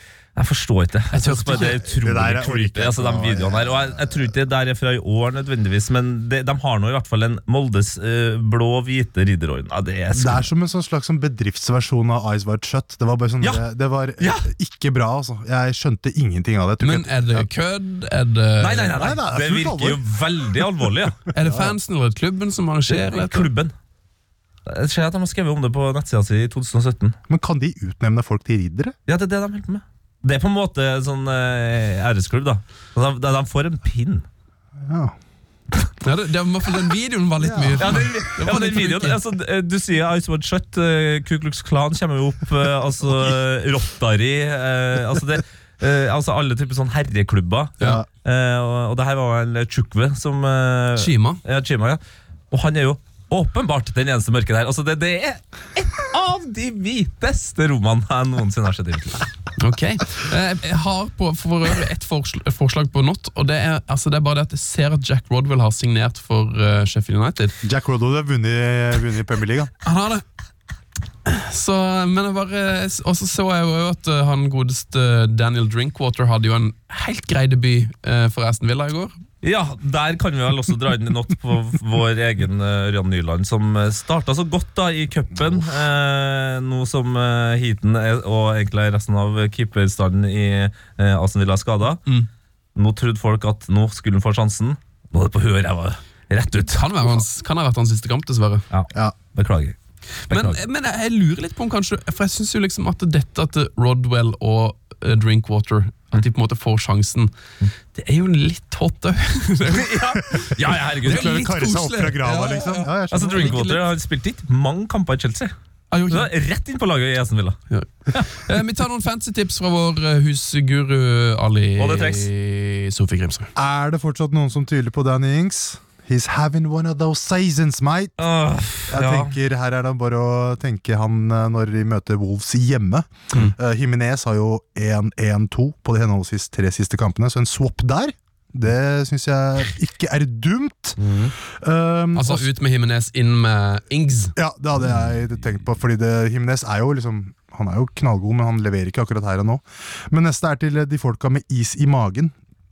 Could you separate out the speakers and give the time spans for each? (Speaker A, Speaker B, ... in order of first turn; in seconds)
Speaker A: 0.3-10.5, 14.2-14.5, 18.6-21.2, 22.9-23.7, 24.6-27.1, 29.1-34.2, 37.8-52.0, 52.5-59.3, 79.4-92.0, 92.8-97.2, 98.7-99.8, 100.3-100.6, 109.7-111.4, 113.1-115.5, 116.1-117.6, 121.8-122.3, 128.2-129.3
Speaker B: 1.1-1.8, 16.8-19.0, 21.3-23.5, 36.0-39.2, 51.0-51.4, 59.6-67.5, 69.8-70.2, 71.2-79.1, 96.6-98.6, 100.3-107.3, 107.9-113.8, 115.9-116.3, 117.7-123.5, 142.1-144.3
Speaker C: 1.7-4.2, 10.1-17.5, 18.9-20.0, 21.3-21.8, 27.3-28.9, 34.8-35.1, 37.4-38.2, 47.8-48.0, 67.6-69.7, 110.5-113.7, 123.5-128.2, 128.9-142.5, 144.3-152.3